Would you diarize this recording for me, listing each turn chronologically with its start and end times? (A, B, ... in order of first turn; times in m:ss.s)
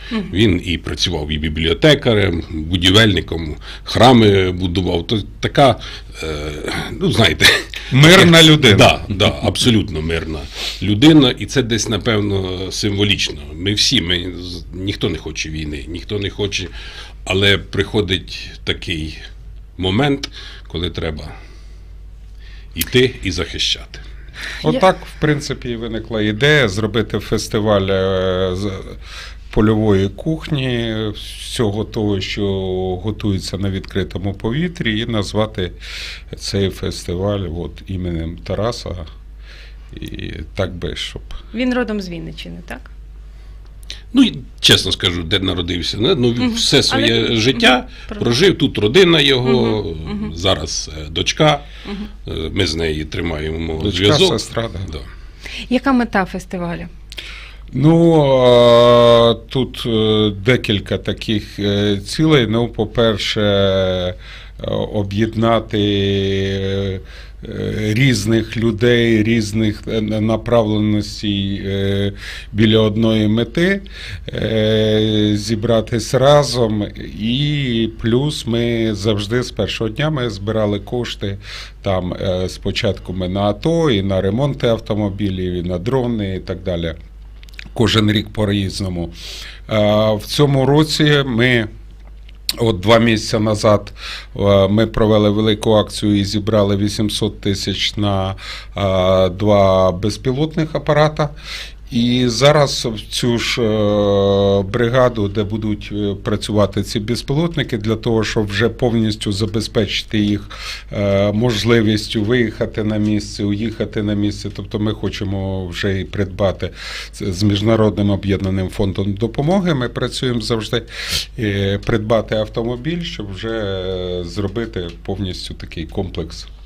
0:00.3-0:16.7 A
0:07.9-0:09.1 B
0:17.2-0:19.2 A
0:19.8-0:21.3 A
0:22.7-0:24.0 A
0:24.6-0:29.0 B
0:29.5-0:35.7 B
0:36.3-0:39.1 B
0:39.9-0:41.4 B
0:41.5-0:42.9 C
0:44.1-0:51.6 A
0:46.4-0:48.2 C
0:49.4-0:50.3 C
0:52.2-0:55.1 A
0:53.8-0:54.9 B
0:55.7-0:56.9 C
0:57.7-1:27.0 B
1:27.7-1:29.1 B
1:29.7-1:31.7 B
1:32.6-1:41.3 B
1:41.9-2:06.5 B